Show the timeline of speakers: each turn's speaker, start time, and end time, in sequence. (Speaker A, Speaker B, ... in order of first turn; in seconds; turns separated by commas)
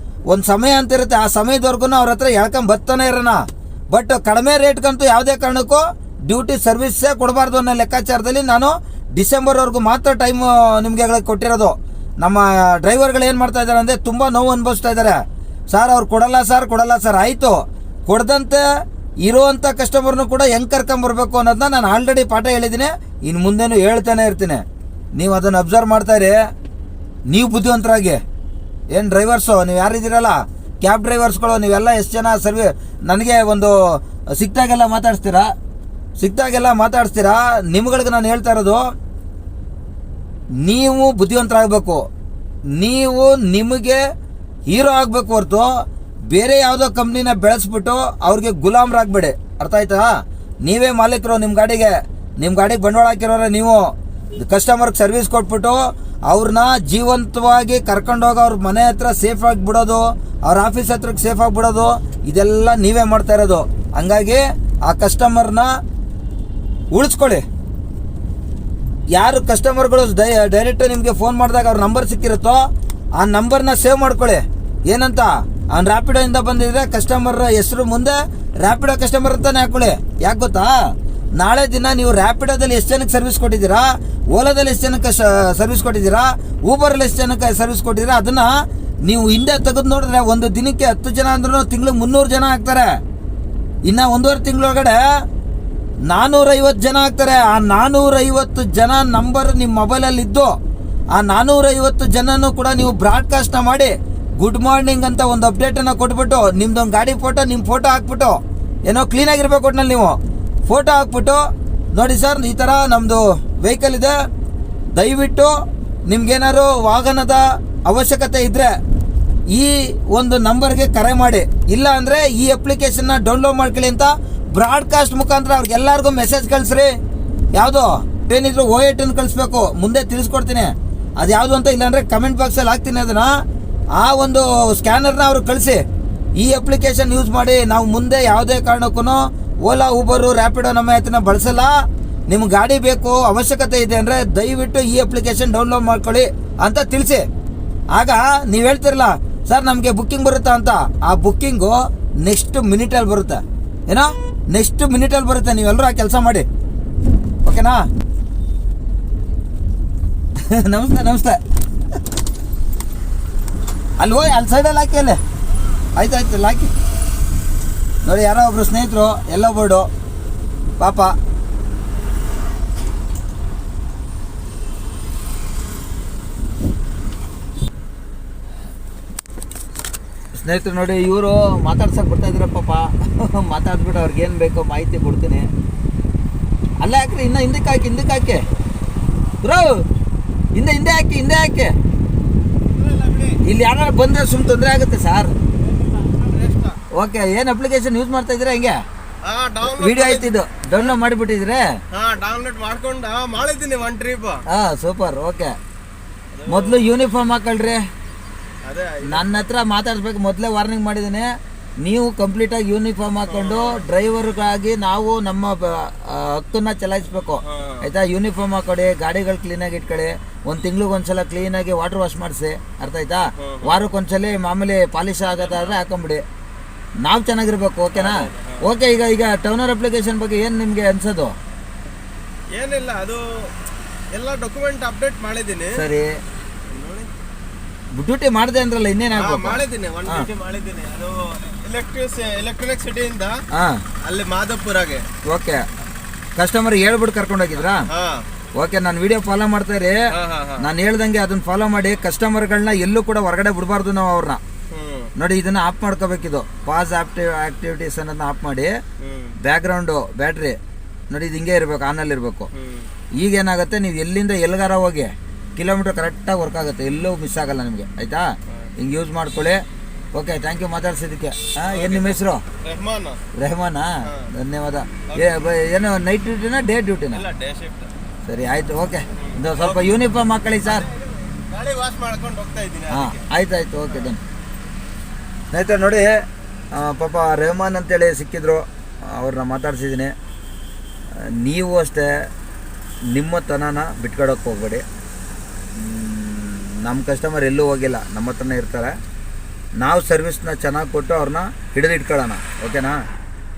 Speaker A: 0.3-18.6, Speaker A: 19.2-26.4, Speaker A: 27.3-28.2, Speaker A: 28.9-35.5, Speaker A: 36.2-38.8, Speaker A: 40.6-42.0, Speaker A: 42.8-44.0, Speaker A: 44.7-65.7, Speaker A: 66.9-67.4, Speaker A: 69.1-72.6, Speaker A: 73.2-92.9, Speaker A: 93.8-95.0, Speaker A: 96.1-100.5, Speaker A: 101.1-110.2, Speaker A: 110.7-111.4, Speaker A: 111.9-114.2, Speaker A: 114.9-115.5, Speaker A: 116.0-118.7, Speaker A: 119.5-126.9, Speaker A: 127.5-133.3, Speaker A: 133.9-135.8, Speaker A: 136.4-141.8, Speaker A: 142.3-147.2, Speaker A: 147.9-156.4, Speaker A: 157.4-157.9, Speaker A: 160.4-161.4, Speaker A: 164.0-165.2, Speaker A: 165.9-166.7, Speaker A: 168.0-169.9, Speaker A: 170.8-171.1, Speaker A: 180.3-185.5, Speaker A: 186.8-188.5, Speaker A: 189.4-189.8, Speaker A: 190.5-191.8, Speaker B: 192.8-193.4, Speaker A: 193.4-195.3, Speaker B: 195.7-196.8, Speaker A: 196.9-198.8, Speaker B: 199.2-200.9, Speaker A: 199.6-201.7, Speaker B: 201.9-204.4, Speaker A: 204.5-205.5, Speaker B: 206.3-206.9, Speaker A: 206.5-207.8, Speaker B: 208.6-209.4, Speaker A: 209.1-226.2, Speaker B: 213.3-213.9, Speaker B: 217.4-217.9, Speaker B: 223.4-223.8, Speaker B: 225.4-225.8, Speaker A: 227.0-231.3, Speaker B: 227.9-228.7, Speaker B: 232.5-233.5, Speaker B: 234.1-235.8, Speaker A: 235.7-236.1, Speaker B: 236.7-237.1, Speaker A: 237.9-240.3, Speaker B: 239.1-243.4, Speaker A: 243.5-243.8, Speaker B: 244.0-245.0, Speaker A: 245.3-245.6, Speaker A: 246.3-247.9, Speaker B: 247.6-248.2, Speaker A: 248.6-250.0, Speaker B: 250.1-250.7, Speaker A: 250.6-254.4, Speaker B: 254.7-255.1, Speaker A: 255.2-258.7, Speaker B: 259.0-259.4, Speaker A: 259.4-260.6, Speaker A: 261.1-262.5, Speaker B: 262.5-262.9, Speaker A: 263.2-268.2, Speaker A: 268.8-269.6, Speaker A: 270.1-272.4, Speaker B: 271.6-273.2, Speaker A: 273.3-277.2, Speaker B: 275.1-275.4, Speaker B: 277.1-277.9, Speaker A: 278.2-280.9, Speaker B: 279.1-279.9, Speaker B: 280.6-283.2, Speaker A: 282.9-284.2, Speaker A: 285.5-290.1, Speaker A: 291.1-292.3, Speaker A: 293.1-294.8, Speaker A: 295.8-298.9, Speaker A: 299.8-303.0